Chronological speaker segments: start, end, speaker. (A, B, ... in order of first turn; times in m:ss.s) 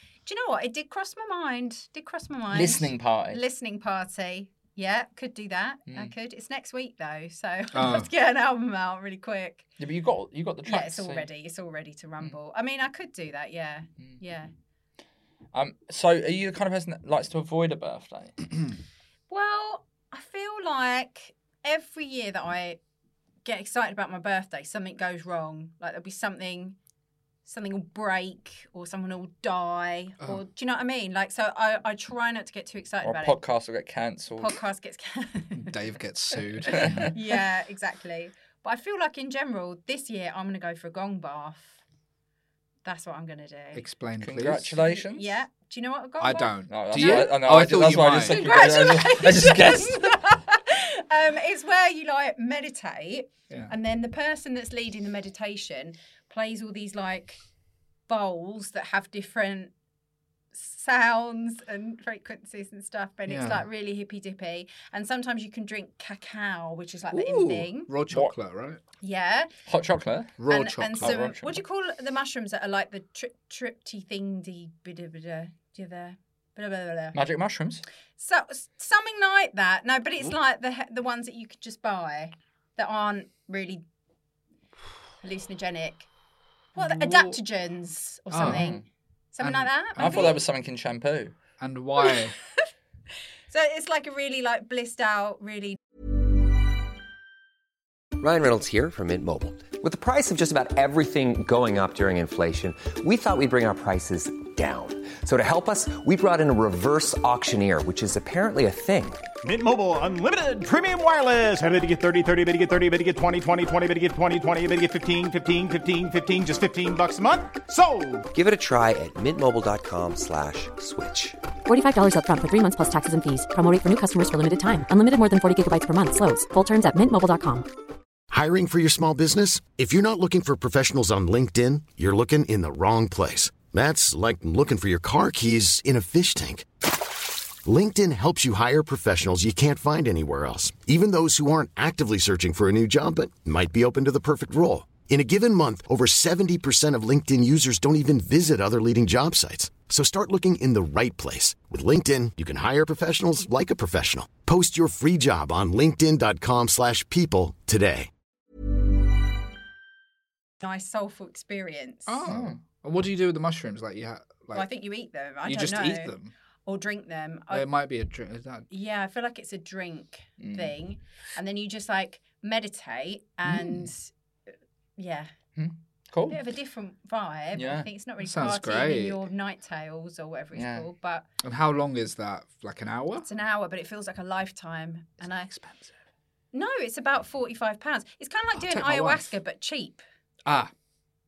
0:00.2-0:09.6 A
0:02.5-0:03.4 B
0:07.7-0:08.1 C
0:09.8-0:11.3 B
0:10.6-0:14.5 A
0:15.5-0:18.4 B
0:19.3-0:22.8 A
0:23.4-0:26.8 A
0:27.4-0:33.4 A
0:33.0-0:34.6 B
0:34.4-0:35.7 A
0:35.5-0:37.1 C
0:36.6-0:41.8 A
0:36.7-0:37.1 B
0:42.8-0:43.8 A
0:43.7-0:44.8 C
0:44.2-0:45.4 B
0:44.8-0:47.3 A
0:46.2-0:48.7 C
0:46.7-0:50.1 B
0:48.2-0:57.4 A
0:58.1-0:59.7 A
1:00.5-1:07.9 A
1:03.3-1:03.6 C
1:07.1-1:08.8 C
1:09.0-1:09.5 A
1:09.7-1:10.4 B
1:10.4-1:11.2 C
1:10.5-1:17.2 A
1:11.0-1:11.6 B
1:17.1-1:17.8 B
1:18.2-1:23.8 A
1:25.2-1:26.1 A
1:26.7-1:30.4 A
1:26.8-1:27.4 C
1:28.3-1:28.7 C
1:28.4-1:28.8 B
1:29.4-1:30.3 C
1:30.0-1:31.4 B
1:31.6-1:32.4 C
1:32.0-1:32.3 A
1:33.5-1:35.8 A
1:38.2-1:49.2 D
1:49.4-1:58.3 E
1:58.3-2:01.4 D
2:01.6-2:07.6 F
2:08.3-2:16.7 G
2:17.6-2:38.1 G
2:40.6-2:42.2 A
2:42.1-2:44.7 C
2:42.3-2:42.6 B
2:44.5-2:46.1 A
2:45.4-2:46.3 C
2:46.6-2:47.7 A
2:47.5-2:48.7 C
2:48.7-2:54.1 A
2:50.4-2:50.7 B
2:53.4-2:53.9 C
2:55.0-2:55.3 A
2:55.6-2:56.4 B
2:56.3-3:01.2 A
2:57.5-2:57.9 B
2:58.2-2:59.2 C
3:00.5-3:00.8 B
3:01.4-3:03.3 C
3:03.2-3:05.5 A
3:05.2-3:06.0 C
3:06.5-3:10.0 A
3:08.5-3:09.3 C
3:10.4-3:10.7 C